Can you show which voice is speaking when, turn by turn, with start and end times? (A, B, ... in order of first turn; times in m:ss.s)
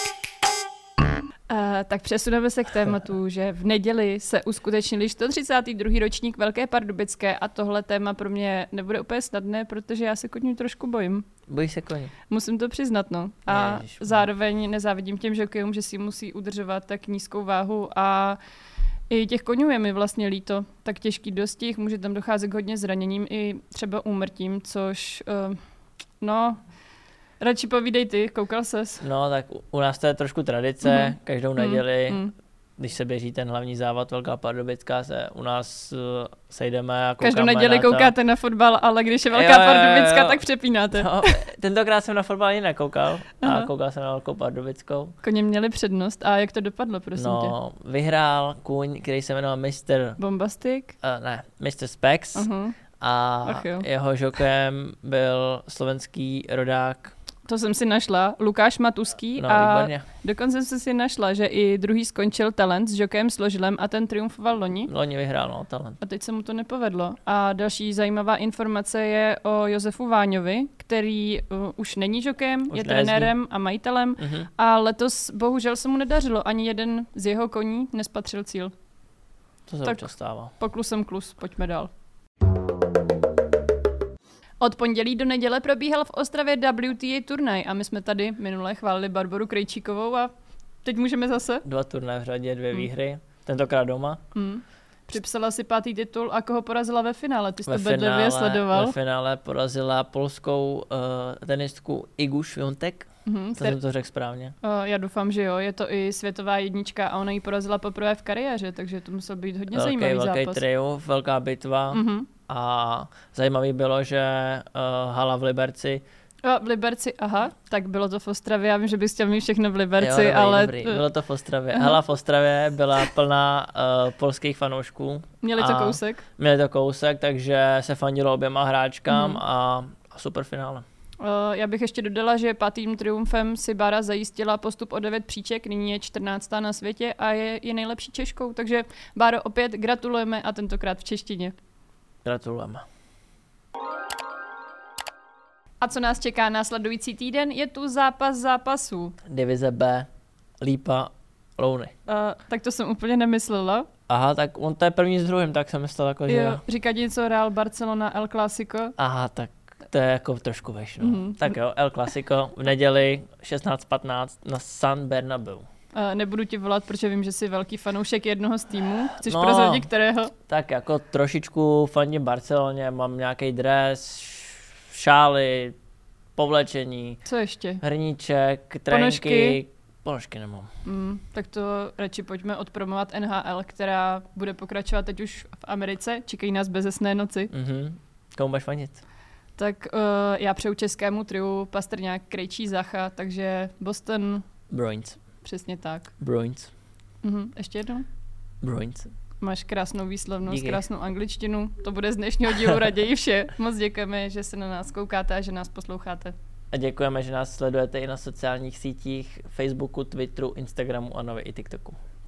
0:01.5-0:11.2 A
0:11.5-0:12.1 B
0:12.3-0:18.4 A
0:13.5-0:14.2 B
0:19.1-0:25.6 A
0:26.2-0:26.6 A
0:27.4-0:29.0 A
0:29.0-0:32.2 B
0:30.8-0:32.3 A
0:32.8-0:38.1 B
0:37.2-0:41.4 A
0:39.3-0:45.1 B
0:43.4-0:43.7 A
0:45.2-0:47.5 A
0:47.2-0:50.2 B
0:50.2-0:50.9 A
0:51.0-0:57.1 B
0:52.3-0:52.8 A
0:53.4-0:53.8 A
0:57.5-1:04.9 A
0:59.4-1:00.0 B
1:04.9-1:06.0 B
1:06.0-1:18.7 A
1:12.7-1:13.3 B
1:14.2-1:14.5 B
1:19.7-1:20.5 B
1:19.8-1:21.9 A
1:24.6-1:30.3 A
1:30.8-1:31.6 A
1:31.6-1:34.2 B
1:34.3-1:39.0 A
1:37.6-1:44.5 B
1:43.2-1:43.8 A
1:44.6-1:50.6 A
1:49.7-1:56.0 B
1:51.9-1:52.3 A
1:56.4-2:01.1 A
2:00.0-2:10.8 B
2:01.7-2:02.0 A
2:05.4-2:06.2 A
2:09.1-2:09.4 A
2:11.2-2:21.5 A
2:22.2-2:22.8 B
2:25.8-2:29.2 A
2:29.2-2:30.1 B
2:30.6-2:31.9 B
2:32.1-2:33.9 A
2:34.1-2:36.6 B
2:36.3-2:38.9 A
2:39.0-2:45.6 B
2:41.0-2:41.5 A
2:45.9-2:50.3 A
2:49.2-2:49.9 B
2:50.4-2:55.8 B
2:56.4-2:57.2 B
2:57.2-2:57.8 A
2:57.8-3:00.7 B
2:58.9-2:59.6 A
3:00.8-3:07.5 A
3:07.5-3:09.0 B
3:09.6-3:14.4 A
3:14.7-3:15.2 B
3:15.4-3:16.1 A
3:16.2-3:16.7 B
3:17.2-3:18.0 A
3:18.6-3:19.1 B
3:19.4-3:26.3 A
3:20.5-3:20.8 B
3:26.7-3:32.0 B